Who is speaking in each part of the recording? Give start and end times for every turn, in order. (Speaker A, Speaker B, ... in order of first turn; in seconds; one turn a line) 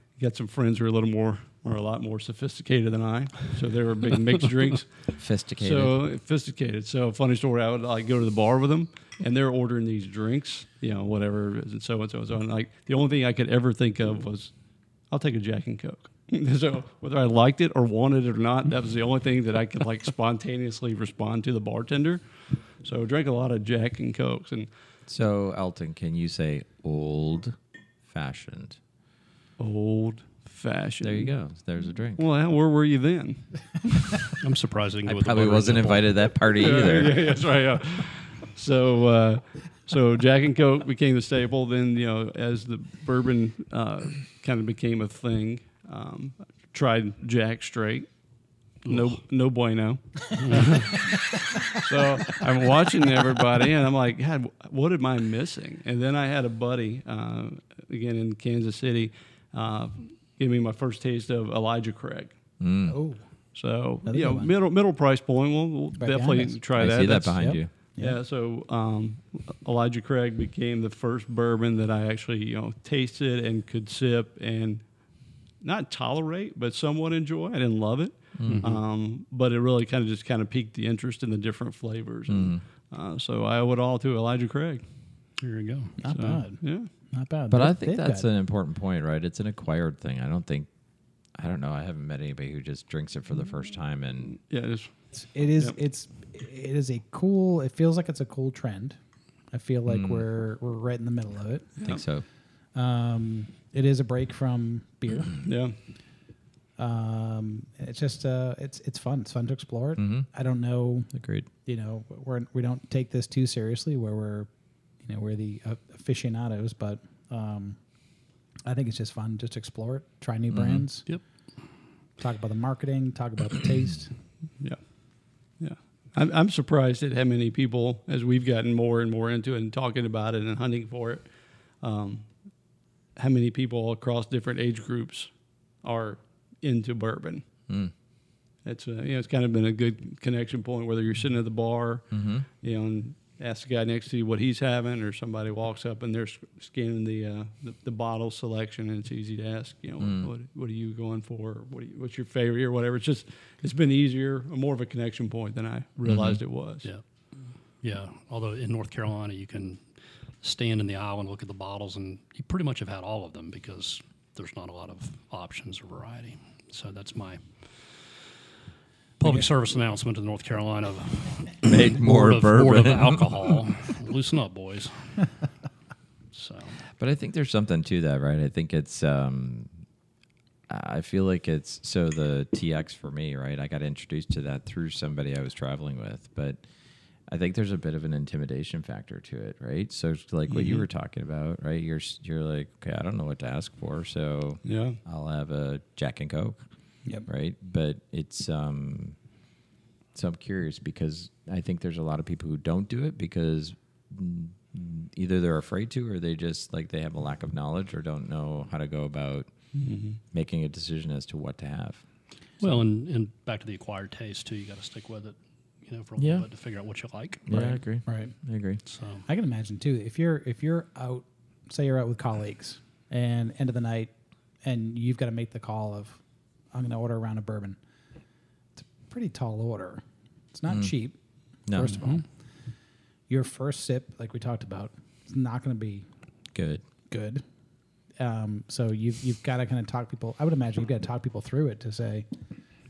Speaker A: 0.2-14.5
Speaker B: 5.2-6.0
Speaker A: 15.1-24.7
Speaker B: 25.1-28.8
Speaker A: 29.6-31.3
Speaker B: 31.0-32.2
Speaker A: 32.2-34.3
Speaker C: 34.4-36.2
Speaker B: 35.0-37.3
Speaker A: 36.5-48.1
Speaker C: 48.8-49.2
Speaker A: 48.9-62.3
Speaker C: 50.3-50.9
Speaker B: 62.6-63.0
Speaker D: 62.9-63.2
Speaker A: 63.5-74.8
Speaker D: 64.0-64.5
Speaker D: 66.0-66.6
Speaker B: 66.8-67.7
Speaker D: 67.3-68.2
Speaker A: 75.6-84.8
Speaker B: 78.4-78.7
Speaker C: 78.4-78.8
Speaker B: 82.3-82.6
Speaker C: 85.4-86.0
Speaker D: 86.0-88.3
Speaker A: 86.1-86.9
Speaker B: 87.5-90.7
Speaker B: 91.3-94.4
Speaker A: 94.3-94.9
Speaker D: 95.1-99.0
Speaker D: 99.5-101.9
Speaker B: 99.9-100.2
Speaker B: 101.8-102.2
Speaker D: 102.7-105.5
Speaker A: 105.4-105.7
Speaker D: 106.8-111.1
Speaker B: 110.0-110.3
Speaker B: 111.1-111.5
Speaker D: 111.6-114.5
Speaker D: 115.0-117.8
Speaker D: 118.6-121.1
Speaker B: 120.5-120.9
Speaker D: 122.2-124.1
Speaker A: 125.6-131.3
Speaker A: 131.8-132.3
Speaker A: 133.2-135.3
Speaker A: 135.8-137.4
Speaker A: 138.6-156.9
Speaker B: 142.1-142.4
Speaker B: 150.0-150.3
Speaker B: 156.0-156.4
Speaker C: 157.8-168.2
Speaker C: 169.2-175.3
Speaker B: 171.6-173.5
Speaker C: 176.3-176.8
Speaker B: 177.0-179.7
Speaker B: 180.7-186.6
Speaker B: 187.3-196.6
Speaker A: 190.5-190.8
Speaker A: 194.6-195.0
Speaker B: 197.2-199.2
Speaker B: 200.1-209.5
Speaker A: 209.7-210.2
Speaker B: 210.3-212.0
Speaker C: 212.6-217.8
Speaker B: 216.2-216.5
Speaker B: 217.5-218.8
Speaker D: 218.1-218.3
Speaker C: 218.8-219.3
Speaker D: 219.2-224.1
Speaker D: 224.6-226.2
Speaker D: 226.7-227.8
Speaker D: 228.8-230.0
Speaker D: 230.5-231.2
Speaker B: 231.7-232.0
Speaker D: 231.7-232.2
Speaker D: 233.3-236.1
Speaker B: 236.5-236.8
Speaker D: 237.1-237.4
Speaker D: 238.2-242.3